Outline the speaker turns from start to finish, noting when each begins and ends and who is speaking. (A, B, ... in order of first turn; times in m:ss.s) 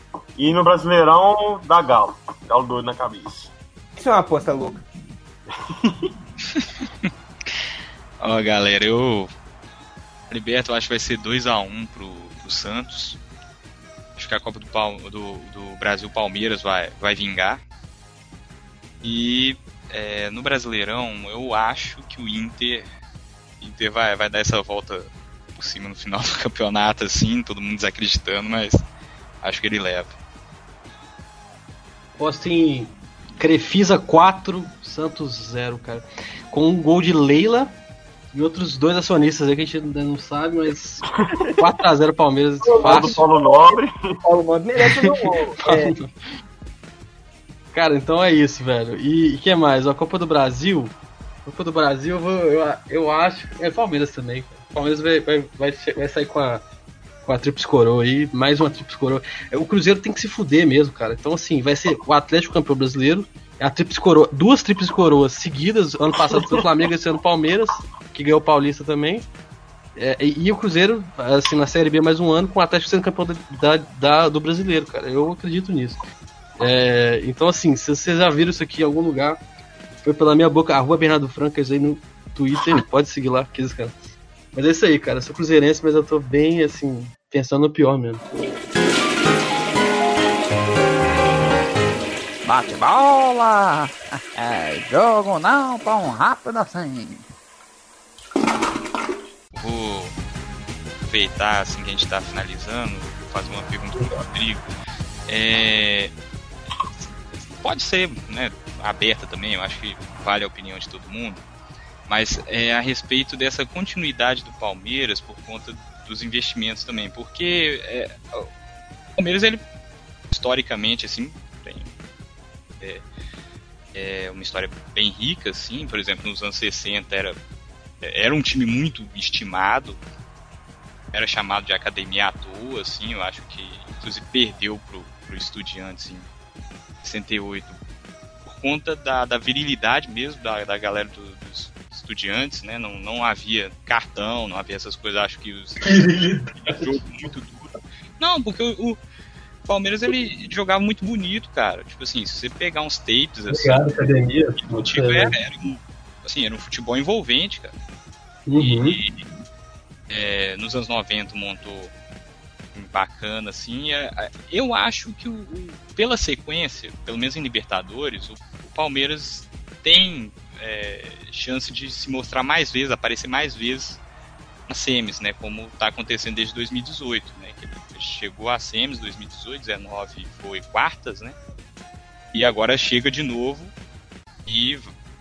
0:00.4-0:03.5 A
0:04.0-0:04.8 B
0:05.7-0:06.1 A
0:08.2-0:09.3 C
0:10.3-0:13.2 C
0:14.2-0:17.6 C
0:19.0-0:22.9 C
0:23.6-0:28.8 C
0:29.4-0:30.1 C
0:32.2-0:37.8 D
0:38.3-0:43.2 D
0:42.6-0:46.0 B
0:42.8-0:44.2 A
0:44.8-0:46.1 D
0:47.7-0:56.6 D
0:57.2-1:09.2 D
1:10.0-1:16.0 D
1:16.6-1:19.4 D
1:20.0-1:23.9 D
1:24.5-1:28.2 D
1:32.4-1:37.2 E
1:39.5-1:40.2 C
1:41.0-1:44.7 C
1:45.3-1:46.1 C
1:47.0-1:51.4 C
1:52.1-1:58.5 C
1:59.2-1:59.6 C
2:00.3-2:01.9 C
2:02.8-2:03.0 C
2:03.9-2:07.4 C
2:08.0-2:10.0 C
2:11.1-2:16.3 C
2:17.0-2:17.8 C
2:18.4-2:25.9 C
2:25.8-2:26.9 D
2:26.6-2:29.0 C
2:29.6-2:33.9 C
2:33.5-2:35.3 D
2:34.6-2:37.7 C
2:38.5-2:39.0 D
2:38.6-2:39.2 C
2:40.1-2:41.9 C
2:42.7-2:54.0 C
2:54.7-3:01.4 C
3:02.3-3:03.7 C
3:04.4-3:04.9 C